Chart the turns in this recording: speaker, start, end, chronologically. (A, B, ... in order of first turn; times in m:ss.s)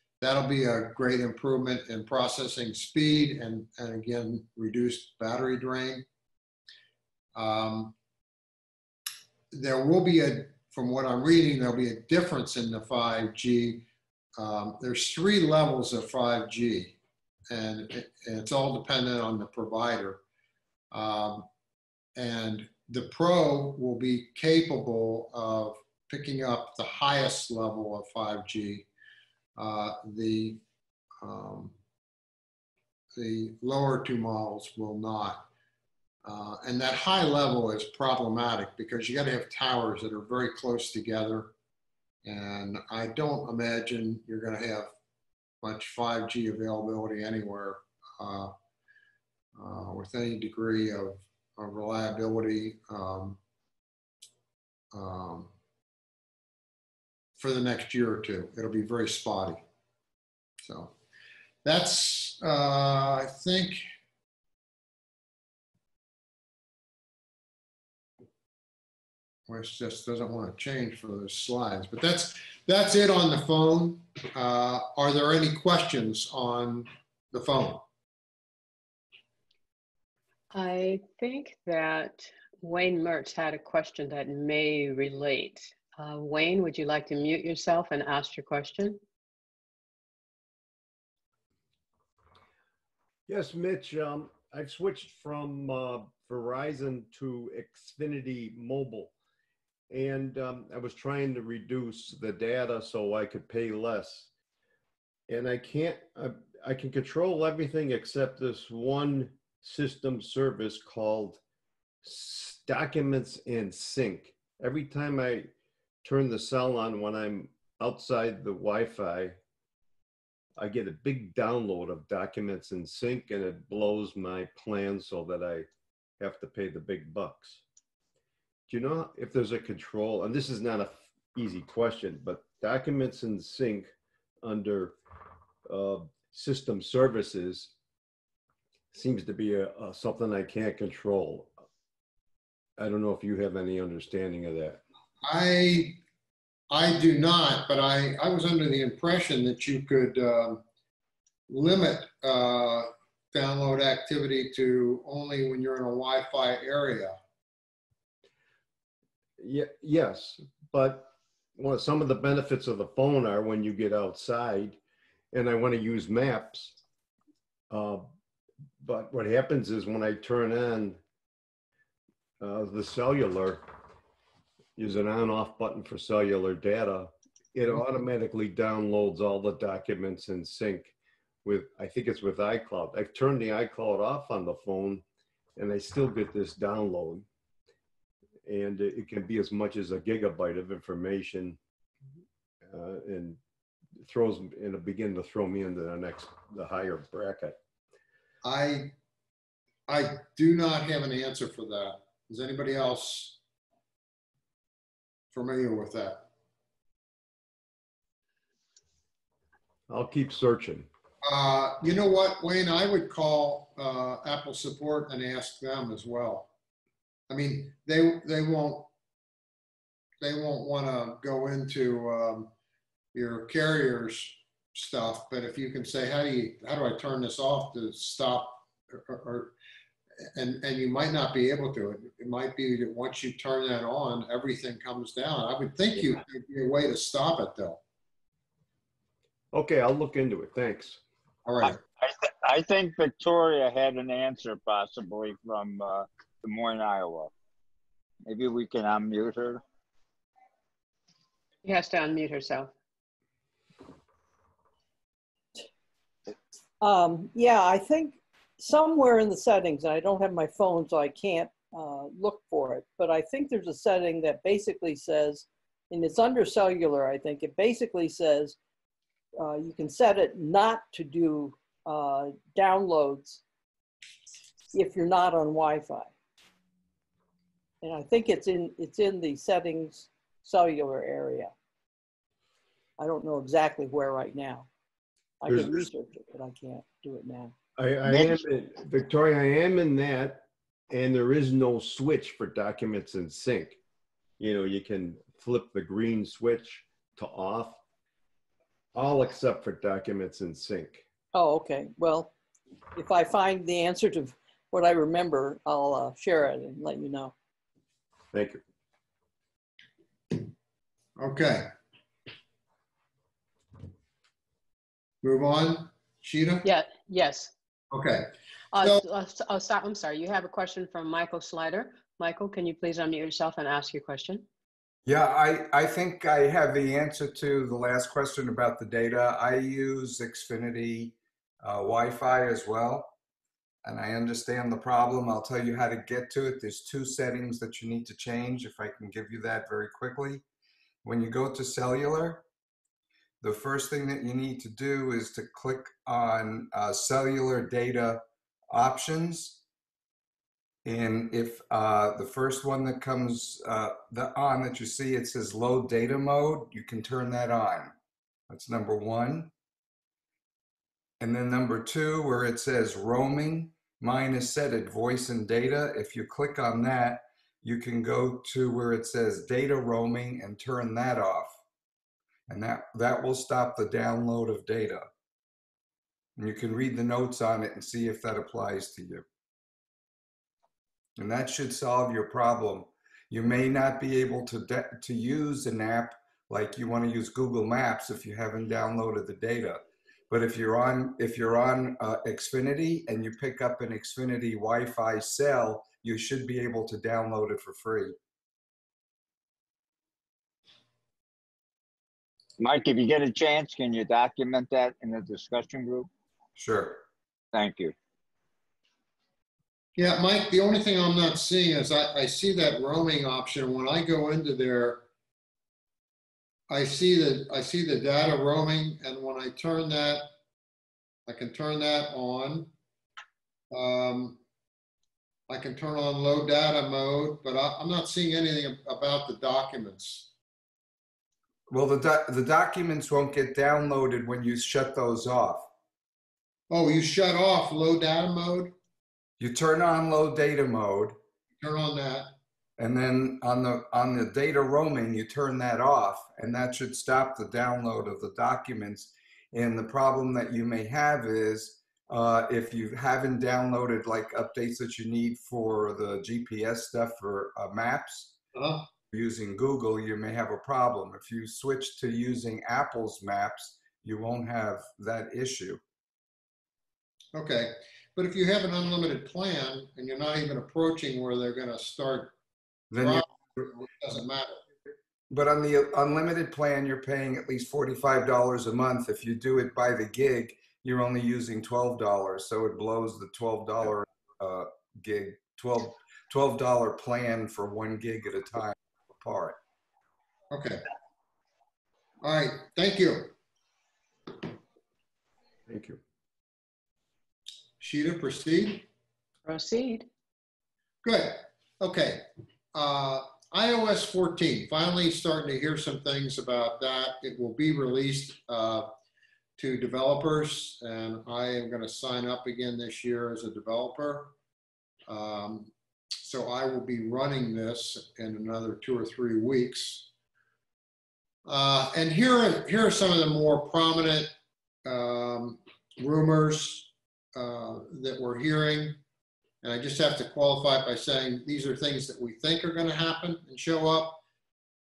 0:00.2-0:06.0 A
0:07.4-0:07.9 A
0:09.5-0:13.8 A
0:14.4-0:17.0 A
0:17.5-0:20.2 A
0:20.9-0:21.5 A
0:22.2-0:28.9 A
0:29.6-0:30.6 A
0:31.2-0:31.7 A
0:33.2-0:35.5 A
0:36.2-0:41.5 A
0:42.2-0:44.9 A
0:45.6-0:48.5 A
0:49.6-0:53.4 A
0:54.9-0:55.5 A
0:57.4-0:59.6 A
1:00.6-1:00.9 A
1:01.6-1:03.8 A
1:09.5-1:17.8 A
1:20.5-1:29.0 B
1:33.3-1:39.1 C
1:39.9-1:44.3 C
1:45.3-1:51.4 C
1:52.0-1:55.5 C
1:56.0-1:59.4 C
2:00.6-2:05.7 C
2:06.2-2:07.6 C
2:08.7-2:13.9 C
2:14.4-2:15.0 C
2:15.7-2:17.7 C
2:18.9-2:21.5 C
2:22.8-2:24.8 C
2:25.2-2:26.0 A
2:26.7-2:30.6 A
2:31.5-2:37.1 A
2:39.4-2:44.8 C
2:45.3-2:46.8 C
2:47.7-2:48.1 C
2:48.8-2:51.0 C
2:52.4-2:53.8 C
2:54.8-3:05.0 C
3:05.6-3:07.3 C
3:08.4-3:11.6 C
3:12.7-3:13.4 C
3:14.0-3:17.6 C
3:18.4-3:18.9 A
3:19.9-3:23.4 A
3:25.3-3:26.2 A
3:29.9-3:30.9 C
3:31.2-3:36.5 A
3:37.3-3:38.9 A
3:40.2-3:42.5 A
3:43.1-3:49.5 A
3:50.4-3:57.8 A
3:59.5-4:01.0 C
4:01.5-4:01.8 A
4:01.6-4:07.3 D
4:08.3-4:09.6 D
4:11.6-4:12.7 B
4:16.8-4:28.6 E
4:29.4-4:33.4 E
4:34.7-4:36.1 E
4:37.8-4:41.5 E
4:43.0-4:44.7 E
4:45.4-4:47.6 E
4:45.5-4:45.9 C
4:47.8-4:53.8 C
4:54.4-4:57.8 C
4:58.9-5:01.0 C
5:01.3-5:02.3 E
5:03.0-5:07.3 E
5:08.3-5:08.6 C
5:11.2-5:11.6 A
5:15.2-5:16.6 A
5:16.6-5:17.5 B
5:17.9-5:18.2 A
5:18.7-5:24.5 B
5:25.0-5:33.1 F
5:33.8-5:40.4 F
5:41.0-5:42.4 F
5:43.4-5:49.6 F
5:50.8-5:58.0 F
5:58.5-5:59.5 F
6:01.2-6:11.6 F
6:12.5-6:15.1 F
6:16.4-6:19.3 F
6:21.2-6:38.2 F
6:42.6-6:46.1 D
6:46.6-6:47.0 F
6:47.5-6:48.0 D
6:50.0-6:55.0 A
6:56.7-7:00.2 A
7:01.3-7:02.7 A
7:03.7-7:04.4 A
7:05.5-7:10.3 A
7:11.7-7:15.7 F
7:16.7-7:18.7 A
7:19.4-7:21.2 F
7:21.6-7:22.3 A
7:22.8-7:38.4 F
7:38.6-7:38.8 A
7:39.1-7:45.8 F
7:47.4-7:52.3 A
7:52.9-7:53.2 F
7:53.0-7:54.6 A
7:55.3-8:09.6 F
8:10.5-8:10.8 A
8:12.2-8:13.3 A
8:15.7-8:16.0 C
8:17.8-8:18.9 A
8:19.5-8:20.1 B
8:21.0-8:22.2 A
8:22.7-8:28.8 A
8:29.6-8:34.3 A
8:35.1-8:35.7 A
8:36.2-8:40.1 A
8:41.5-8:44.3 A
8:44.8-8:49.0 A
8:49.6-8:54.2 A